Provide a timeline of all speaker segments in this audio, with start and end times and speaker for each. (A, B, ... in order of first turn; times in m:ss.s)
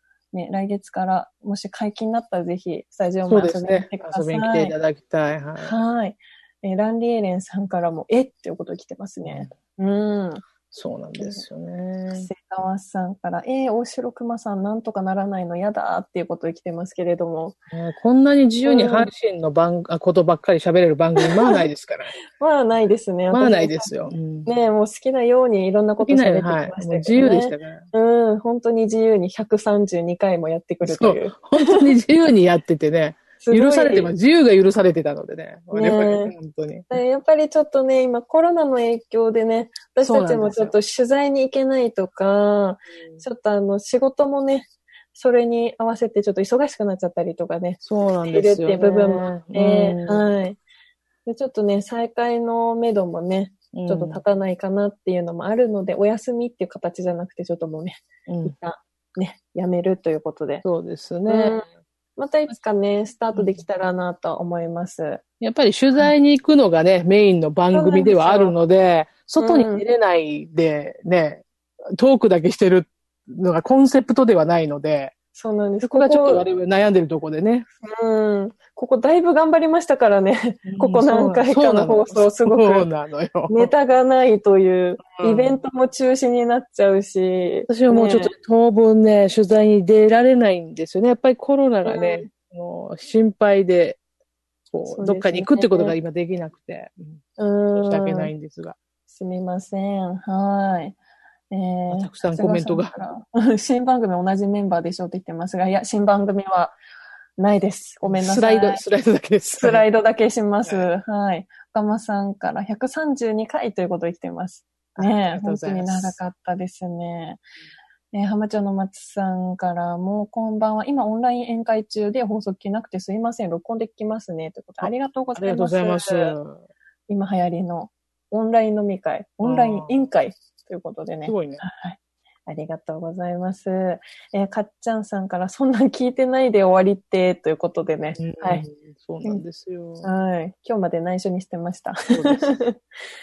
0:00.3-0:04.7 A
0:03.3-0:05.7 B
0:05.6-0:10.4 A
0:09.2-0:09.5 B
0:10.7-0:12.3 B
0:12.1-0:17.6 A
0:17.7-0:22.1 B
0:18.6-0:19.1 A
0:21.2-0:21.6 A
0:22.4-0:23.9 A
0:23.3-0:24.5 B
0:24.4-0:31.9 A
0:26.0-0:27.8 B
0:30.8-0:36.9 B
0:33.4-0:34.1 A
0:35.7-0:36.3 A
0:36.9-0:50.6 A
0:40.0-0:40.7 B
0:47.8-0:50.2 B
0:51.2-1:00.6 A
0:53.7-0:54.2 B
0:58.3-0:58.5 B
1:00.6-1:01.6 B
1:01.3-1:05.2 A
1:03.3-1:03.6 B
1:05.4-1:11.4 B
1:07.7-1:08.6 A
1:09.4-1:09.8 A
1:12.0-1:15.1 B
1:15.3-1:16.4 A
1:15.8-1:17.7 B
1:17.8-1:22.9 A
1:20.6-1:23.7 B
1:23.5-1:28.3 A
1:25.1-1:25.6 B
1:27.7-1:34.0 B
1:31.8-1:32.3 A
1:34.7-1:37.2 B
1:34.8-1:35.9 A
1:37.4-1:38.3 A
1:37.7-1:38.8 B
1:39.1-1:41.0 A
1:41.5-1:46.8 A
1:41.9-1:43.0 B
1:47.4-1:48.8 A
1:48.0-1:49.8 B
1:49.6-1:57.4 A
1:50.6-1:50.9 B
1:55.0-1:56.2 B
1:58.1-2:06.4 A
2:04.8-2:06.6 B
2:07.1-2:18.6 A
2:09.4-2:10.0 B
2:11.2-2:11.6 B
2:18.2-2:20.1 B
2:20.0-2:22.8 A
2:22.1-2:22.5 B